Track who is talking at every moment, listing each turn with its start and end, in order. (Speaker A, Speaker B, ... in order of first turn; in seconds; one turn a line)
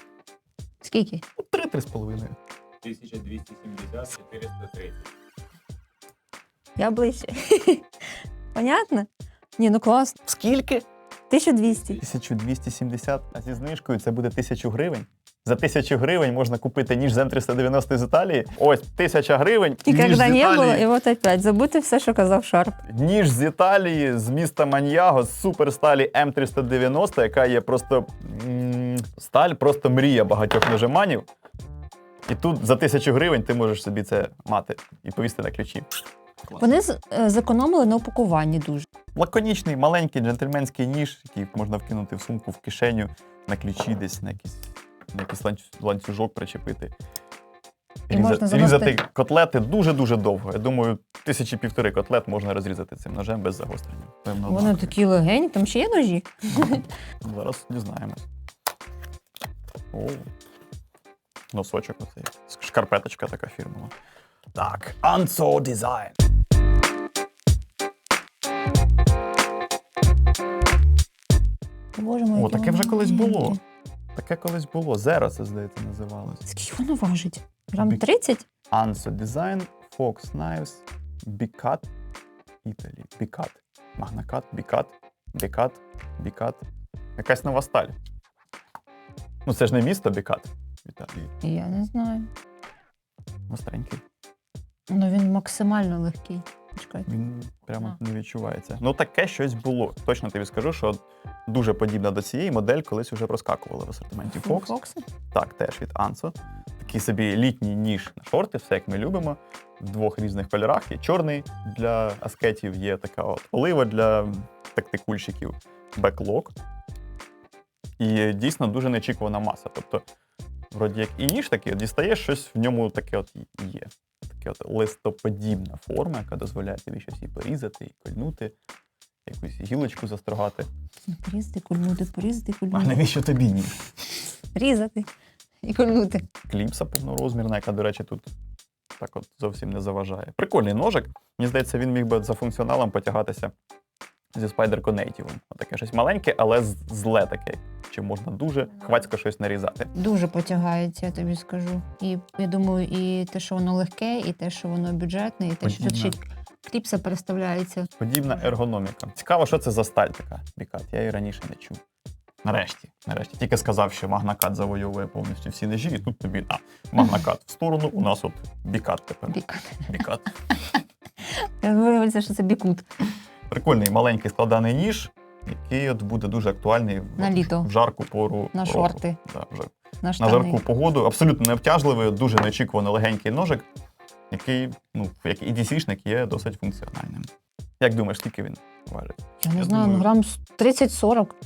Speaker A: 0.8-1.2
Speaker B: 1.4-2.4
Speaker C: 2.8-5.0
Speaker A: 6.8-7.8
Speaker A: 8.5-10.2
Speaker B: 10.3-10.8
Speaker A: 11.3-12.0
Speaker B: 11.9-20.9
Speaker A: 19.8-22.8
Speaker B: 22.8-31.2
Speaker B: 32.3-35.9
Speaker A: 36.6-38.9
Speaker B: 39.1-46.9
Speaker A: 48.1-49.0
Speaker B: 48.1-54.9
Speaker A: 54.4-56.9
Speaker B: 57.2-58.2
Speaker B: 59.9-60.3
Speaker B: 61.5-63.9
Speaker B: 64.5-66.1
Speaker A: 71.9-73.6
Speaker B: 72.3-73.6
Speaker B: 74.1-76.4
Speaker A: 76.5-78.4
Speaker B: 78.7-81.9
Speaker B: 82.6-86.6
Speaker B: 87.2-87.9
Speaker B: 89.5-91.3
Speaker A: 91.4-92.3
Speaker B: 93.5-94.0
Speaker A: 94.9-97.1
Speaker B: 97.1-104.7
Speaker A: 104.3-105.0
Speaker B: 105.3-116.5
Speaker B: 118.0-120.0
Speaker B: 120.7-128.5
Speaker B: 129.2-130.7
Speaker A: 131.1-133.0
Speaker B: 132.7-133.8
Speaker A: 134.6-135.1
Speaker A: 135.6-136.2
Speaker B: 136.5-138.3
Speaker B: 139.0-143.5
Speaker B: 144.3-149.9
Speaker A: 149.9-157.9
Speaker B: 155.6-156.2
Speaker B: 158.0-161.8
Speaker B: 162.4-170.3
Speaker A: 169.3-170.0
Speaker A: 171.3-172.8
Speaker B: 173.5-183.7
Speaker A: 177.2-177.7
Speaker A: 178.5-179.2
Speaker A: 180.0-180.6
Speaker B: 184.3-187.3
Speaker B: 187.8-190.1
Speaker A: 189.4-191.3